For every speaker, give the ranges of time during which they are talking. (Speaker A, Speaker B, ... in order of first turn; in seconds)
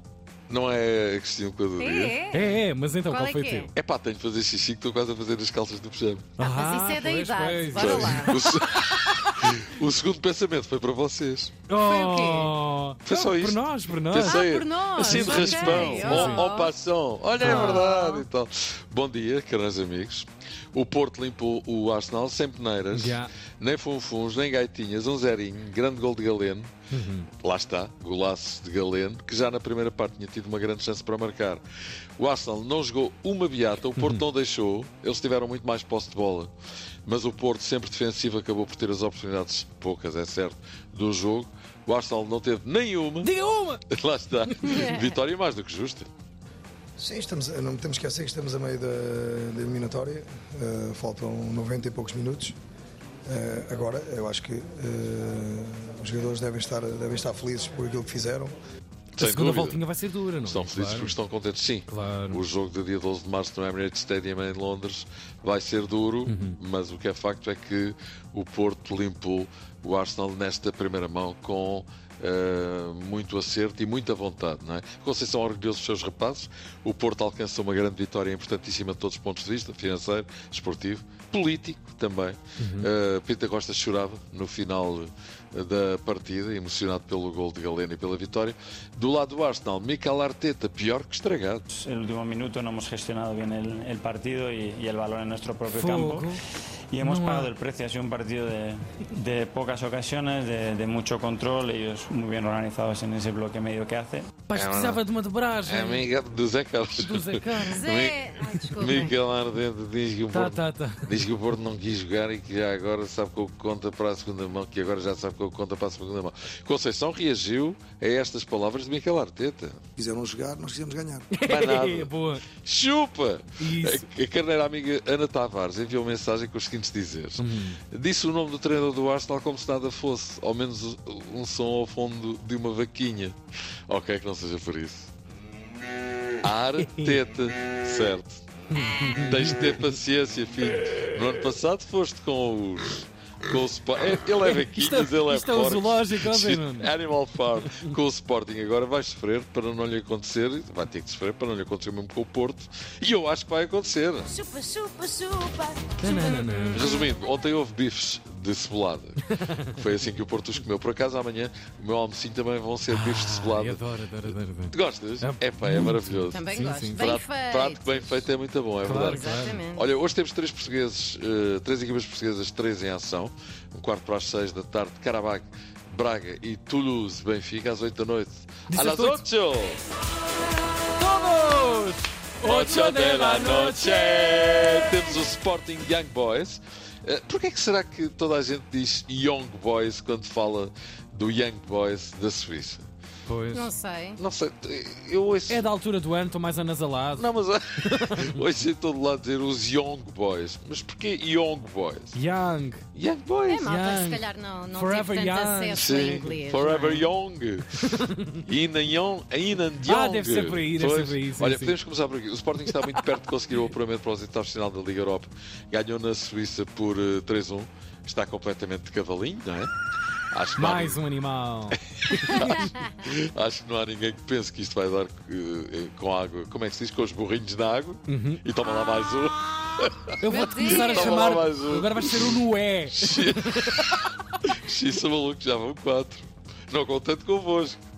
Speaker A: 0.5-2.2, 3.8-6.4, 7.7-11.6, 13.0-26.7, 27.4-31.6, 32.2-36.5, 37.1-43.3, 43.9-46.1, 59.2-59.8, 60.4-91.6, 104.5-105.0, 105.7-108.2, 108.7-119.8, 121.4-133.4, 133.9-135.1, 136.4-138.4, 139.3-154.3, 156.7-166.4, 166.9-179.8, 182.4-192.8, 194.2-195.7, 197.2-202.2, 202.9-203.7, 205.8-207.9, 208.4-219.7, 220.3-221.0, 221.9-232.4, 233.0-237.8
Speaker B: 1.8-3.7, 6.4-9.2, 11.8-12.6, 14.2-16.8, 17.4-18.2, 107.6-109.2, 154.3-157.1, 166.3-168.3, 169.0-169.9, 193.5-194.2, 203.5-206.6, 230.2-231.4
Speaker C: 2.3-3.7, 6.4-8.3, 11.7-14.5, 15.0-16.5, 17.4-17.8, 22.9-23.3, 26.9-27.3, 34.0-34.2, 43.2-43.8, 59.2-61.2, 61.9-62.4, 66.3-66.6, 82.6-82.9, 95.7-96.4, 97.0-97.5, 104.5-106.1, 107.0-107.9, 108.8-109.1, 110.3-111.1, 121.3-122.5, 123.6-124.1, 127.4-127.8, 136.8-137.2, 138.7-139.8, 144.5-146.9, 156.0-156.9, 162.9-167.1, 168.8-169.6, 178.7-179.2, 181.0-184.8, 193.3-193.7, 195.5-197.3, 197.8-198.3, 202.1-202.8, 203.6-207.1, 207.8-208.4, 209.8-211.8, 220.6-222.4, 228.1-228.4, 230.2-233.7
Speaker D: 47.0-52.5, 53.3-58.5, 120.0-121.3
Speaker E: 91.7-96.3, 96.9-104.3